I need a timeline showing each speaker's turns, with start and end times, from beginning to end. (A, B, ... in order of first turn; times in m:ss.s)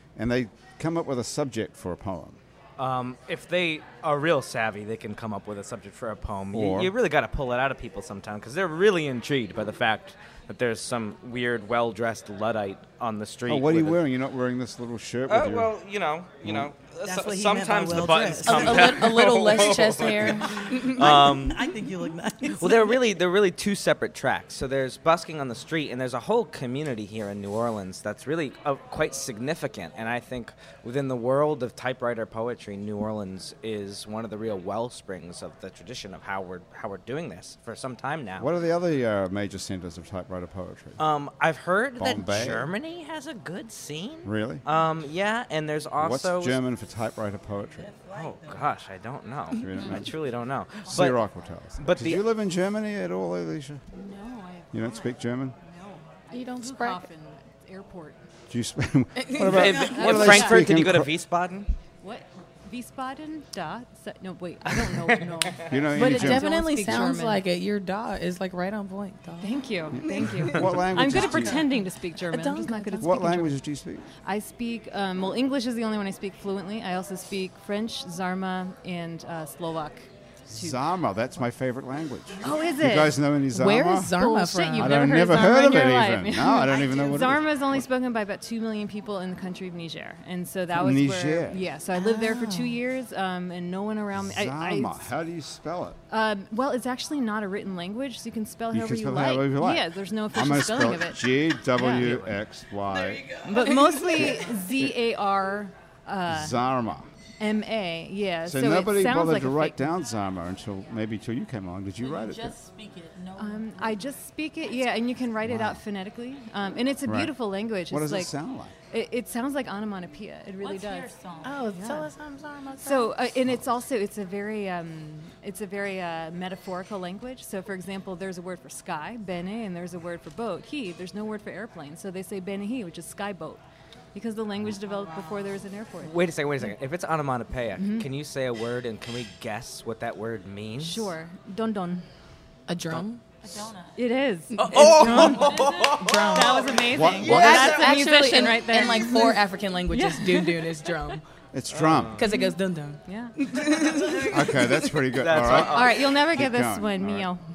0:00.2-0:02.4 A
0:02.8-0:14.0 B
0:06.5-0:06.9 A
0:13.5-0:15.7 A
0:15.3-0:21.7 B
0:16.4-0:16.7 A
0:17.0-0:23.2 C
0:18.4-0:21.3 D
0:22.6-0:38.5 B
0:38.4-0:41.0 A
0:41.0-0:46.6 B
0:42.0-0:42.7 A
0:44.2-0:44.6 A
0:46.0-0:47.9 A
0:47.8-0:48.7 C
0:48.1-0:51.2 B
0:49.5-0:50.2 A
0:50.9-0:53.8 A
0:51.8-0:52.2 B
0:53.9-0:58.2 E
0:54.7-0:55.6 A
0:56.3-0:57.1 D
0:58.5-1:01.1 A
0:59.2-0:59.7 D
0:59.4-1:01.7 B
0:59.6-1:00.2 C
0:59.9-1:00.7 E
1:02.0-1:07.4 E
1:04.8-1:05.8 B
1:05.7-1:06.5 A
1:05.9-1:10.4 D
1:09.4-1:13.6 E
1:09.9-1:11.7 A
1:12.2-1:13.2 D
1:13.0-1:14.1 A
1:14.2-1:20.8 E
1:20.5-1:24.2 A
1:22.4-1:23.2 E
1:23.5-1:25.1 D
1:24.1-1:35.1 E
1:24.8-1:27.8 A
1:30.7-1:31.6 A
1:31.9-1:32.8 D
1:34.2-1:36.0 A
1:36.1-1:42.2 E
1:38.7-1:43.3 A
1:42.0-1:42.3 B
1:43.4-1:46.6 E
1:43.7-1:44.2 D
1:44.2-1:44.8 A
1:46.3-1:47.1 A
1:47.4-1:49.9 E
1:48.5-1:52.6 A
1:52.0-1:54.0 F
1:53.4-1:58.3 E
1:55.4-1:55.8 A
1:57.0-1:57.4 A
1:57.9-1:58.7 A
1:58.9-2:01.1 E
2:00.6-2:01.7 F
2:01.4-2:03.2 D
2:01.7-2:02.1 E
2:02.8-2:13.6 E
2:14.1-2:16.8 E
2:16.0-2:21.1 B
2:17.8-2:18.1 E
2:20.8-2:22.1 E
2:22.7-2:23.4 D
2:23.4-2:24.0 F
2:24.0-2:30.6 E
2:24.5-2:31.2 D
2:24.7-2:26.3 B
2:25.4-2:26.0 F
2:26.9-2:27.8 A
2:31.5-2:32.2 A
2:31.7-2:32.3 B
2:32.2-2:35.0 D
2:32.3-2:33.4 E
2:34.3-2:37.3 A
2:35.1-2:36.2 B
2:35.5-2:37.4 E